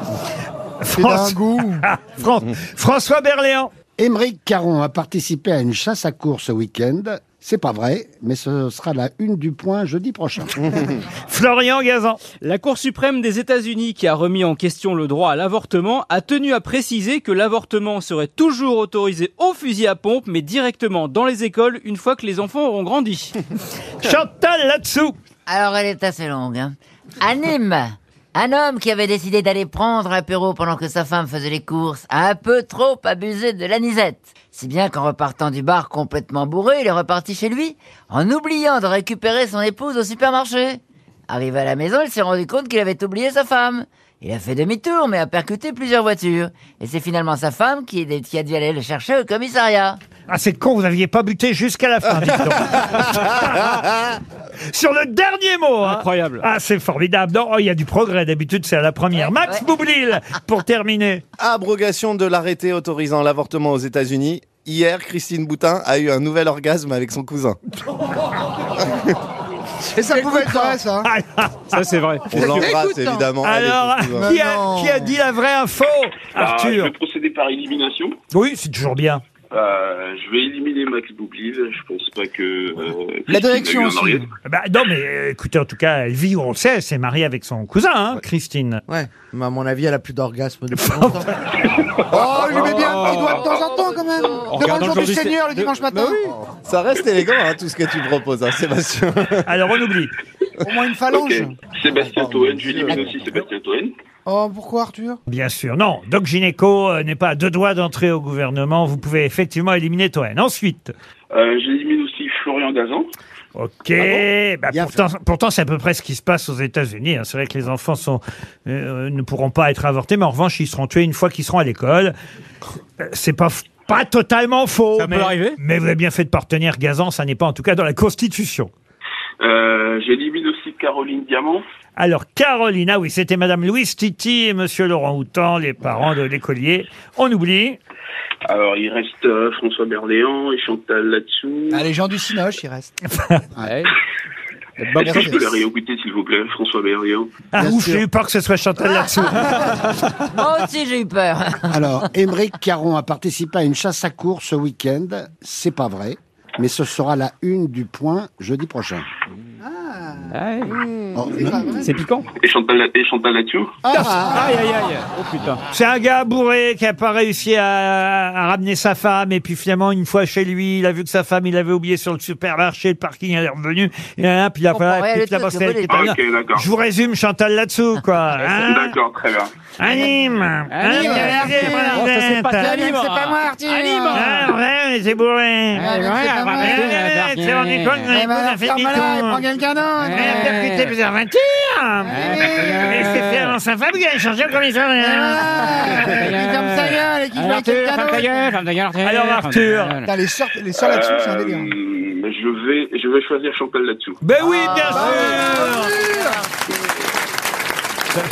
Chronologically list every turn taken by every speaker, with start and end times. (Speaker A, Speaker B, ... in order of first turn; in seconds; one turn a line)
Speaker A: 0.8-3.7
Speaker B: 0.9-1.8
Speaker C: 4.0-10.9
Speaker A: 11.1-12.2
Speaker D: 12.3-23.4
Speaker A: 24.0-25.1
Speaker E: 25.5-50.0
Speaker A: 50.3-53.7
Speaker F: 52.3-54.0
Speaker A: 54.6-61.2
Speaker D: 55.8-56.4
Speaker E: 59.1-59.6
Speaker F: 61.4-67.6
Speaker F: 68.8-69.1
Speaker B: 70.0-71.1
Speaker A: 71.0-71.7
Speaker D: 71.7-72.8
Speaker F: 72.3-74.4
Speaker G: 72.5-73.3
Speaker A: 73.4-76.9
Speaker B: 74.2-74.7
Speaker G: 74.7-75.1
Speaker H: 76.3-78.2
Speaker A: 78.3-79.2
Speaker H: 79.5-84.3
Speaker B: 83.3-84.2
Speaker A: 84.5-88.8
Speaker G: 88.9-92.1
Speaker B: 92.1-96.3
Speaker D: 92.5-93.5
Speaker D: 94.4-96.0
Speaker F: 96.0-99.5
Speaker A: 99.5-100.1
Speaker B: 100.6-101.5
Speaker H: 101.1-103.9
Speaker B: 102.3-102.5
Speaker F: 102.6-103.0
Speaker B: 104.2-105.2
Speaker A: 105.3-110.9
Speaker H: 111.3-113.1
Speaker A: 113.5-122.1
Speaker C: 114.0-115.0
Speaker A: 123.0-128.7
Speaker D: 124.9-125.6
Speaker H: 129.4-131.6
Speaker A: 132.0-137.8
Speaker H: 138.5-141.9
Speaker B: 141.7-142.9
Speaker D: 143.6-143.9
Speaker D: 144.8-145.3
Speaker B: 144.9-145.4
Speaker H: 144.9-147.3
Speaker A: 147.5-149.9
Speaker E: 150.3-151.7
Speaker C: 151.7-159.1
Speaker B: 159.6-160.3
Speaker D: 160.3-160.8
Speaker C: 161.1-161.8
Speaker B: 161.3-161.9
Speaker D: 161.8-162.3
Speaker H: 162.4-163.8
Speaker B: 163.8-164.6
Speaker D: 164.0-165.6
Speaker A: 165.7-178.9
Speaker E: 174.7-176.2
Speaker H: 175.9-176.7
Speaker D: 178.4-178.7
Speaker H: 178.7-179.5
Speaker A: 179.8-182.8
Speaker D: 180.7-184.5
Speaker B: 180.8-184.6
Speaker A: 184.1-185.9
Speaker D: 185.7-188.1
Speaker B: 185.8-186.9
Speaker A: 186.6-189.4
Speaker B: 188.1-190.6
Speaker D: 190.0-190.9
Speaker A: 190.1-192.3
Speaker B: 192.0-193.1
Speaker D: 192.1-193.6
Speaker A: 192.8-195.6
Speaker B: 195.0-198.5
Speaker D: 195.8-200.1
Speaker A: 199.0-199.9
Speaker B: 200.0-201.7
Speaker H: 200.7-204.2
Speaker A: 204.2-206.0
Speaker E: 204.4-206.7
Speaker B: 204.9-206.4